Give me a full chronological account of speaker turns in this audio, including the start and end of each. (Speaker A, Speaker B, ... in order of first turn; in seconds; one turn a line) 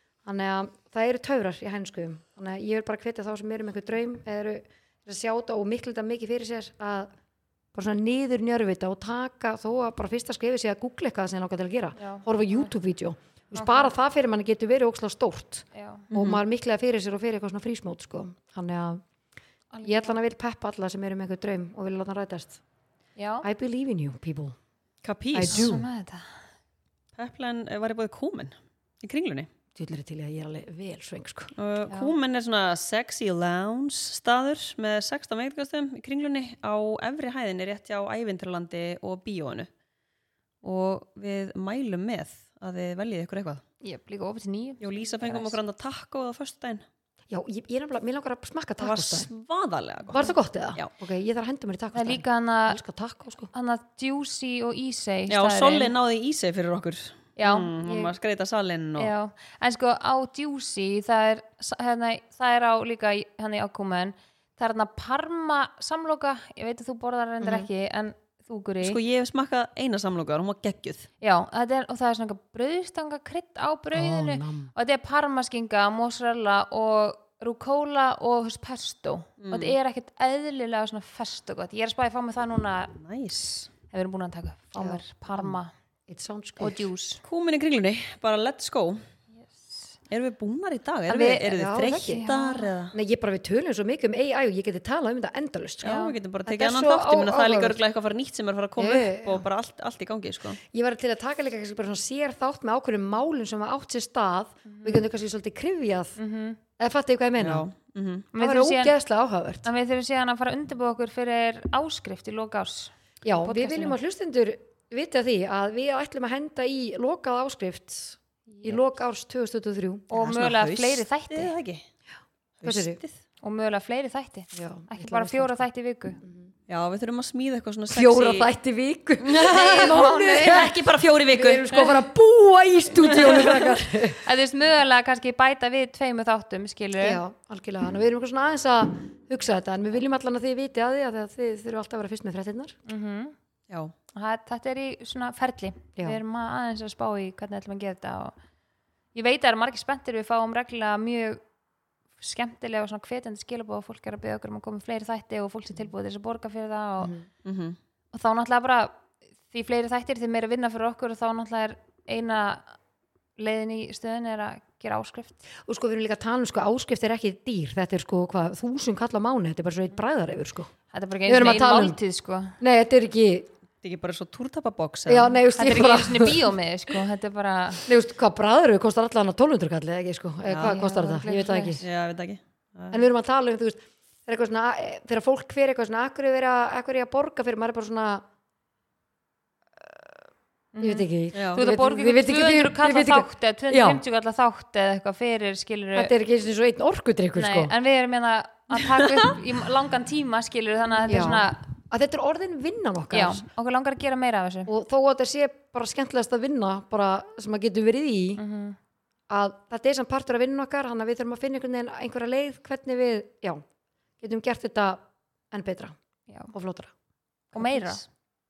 Speaker A: 0.2-7.1
Speaker A: 7.7-19.0
Speaker B: 12.0-12.7
Speaker B: 13.5-13.9
Speaker B: 15.7-16.1
Speaker C: 16.1-16.4
Speaker B: 19.7-20.1
Speaker A: 19.8-22.6
Speaker B: 23.2-23.4
Speaker A: 23.4-24.6
Speaker C: 25.0-25.7
Speaker A: 25.3-25.9
Speaker B: 25.5-26.3
Speaker C: 27.1-29.5
Speaker A: 29.8-31.5
Speaker C: 31.6-39.7
Speaker C: 40.6-43.6
Speaker B: 43.8-45.5
Speaker C: 44.8-46.8
Speaker A: 47.3-49.3
Speaker C: 48.8-50.9
Speaker A: 50.1-53.5
Speaker B: 51.9-52.8
Speaker B: 53.5-55.9
Speaker C: 55.3-59.1
Speaker B: 57.4-58.0
Speaker B: 59.0-69.0
Speaker C: 68.8-71.1
Speaker B: 71.2-83.0
Speaker A: 73.9-74.7
Speaker C: 79.4-79.8
Speaker C: 82.9-83.7
Speaker B: 83.9-85.7
Speaker A: 84.8-86.9
Speaker B: 86.6-87.2
Speaker C: 87.2-89.0
Speaker B: 89.4-89.9
Speaker C: 90.1-93.0
Speaker B: 91.1-92.7
Speaker A: 91.5-92.2
Speaker A: 92.9-97.8
Speaker C: 95.8-100.6
Speaker B: 95.8-96.1
Speaker A: 98.8-99.5
Speaker A: 100.6-106.2
Speaker B: 104.7-105.0
Speaker B: 106.2-106.6
Speaker A: 106.8-107.7
Speaker C: 107.4-108.3
Speaker B: 108.3-108.9
Speaker A: 108.3-109.7
Speaker B: 109.6-114.0
Speaker A: 113.2-120.5
Speaker B: 118.5-118.8
Speaker B: 120.1-121.5
Speaker C: 120.2-121.8
Speaker C: 122.6-123.1
Speaker A: 122.6-123.0
Speaker B: 123.4-126.2
Speaker A: 124.5-125.7
Speaker A: 126.2-126.5
Speaker C: 126.7-128.5
Speaker A: 127.9-134.2
Speaker C: 129.2-132.0
Speaker C: 133.1-133.7
Speaker B: 134.2-137.2
Speaker A: 137.0-142.8
Speaker B: 142.9-143.3
Speaker B: 144.1-148.3
Speaker B: 149.1-151.4
Speaker B: 152.2-157.1
Speaker A: 157.0-157.3
Speaker C: 157.4-157.8
Speaker B: 158.1-162.8
Speaker B: 163.4-165.4
Speaker A: 165.7-170.7
Speaker B: 170.9-172.5
Speaker A: 171.3-172.0
Speaker A: 172.6-173.5
Speaker C: 173.8-175.4
Speaker A: 175.1-176.5
Speaker B: 175.6-177.8
Speaker A: 177.9-181.8
Speaker C: 180.5-180.8
Speaker B: 180.6-181.8
Speaker C: 181.8-183.1
Speaker A: 182.9-188.2
Speaker A: 189.8-190.1
Speaker B: 190.7-196.1
Speaker A: 190.8-194.0
Speaker C: 191.3-191.6
Speaker A: 195.9-197.7
Speaker B: 197.3-201.6
Speaker C: 198.9-199.3
Speaker A: 201.1-203.4
Speaker B: 203.1-204.7
Speaker A: 204.7-208.4
Speaker B: 208.4-208.8
Speaker A: 209.3-213.6
Speaker A: 214.2-215.9
Speaker A: 216.5-216.9
Speaker B: 217.5-218.0
Speaker A: 217.5-217.9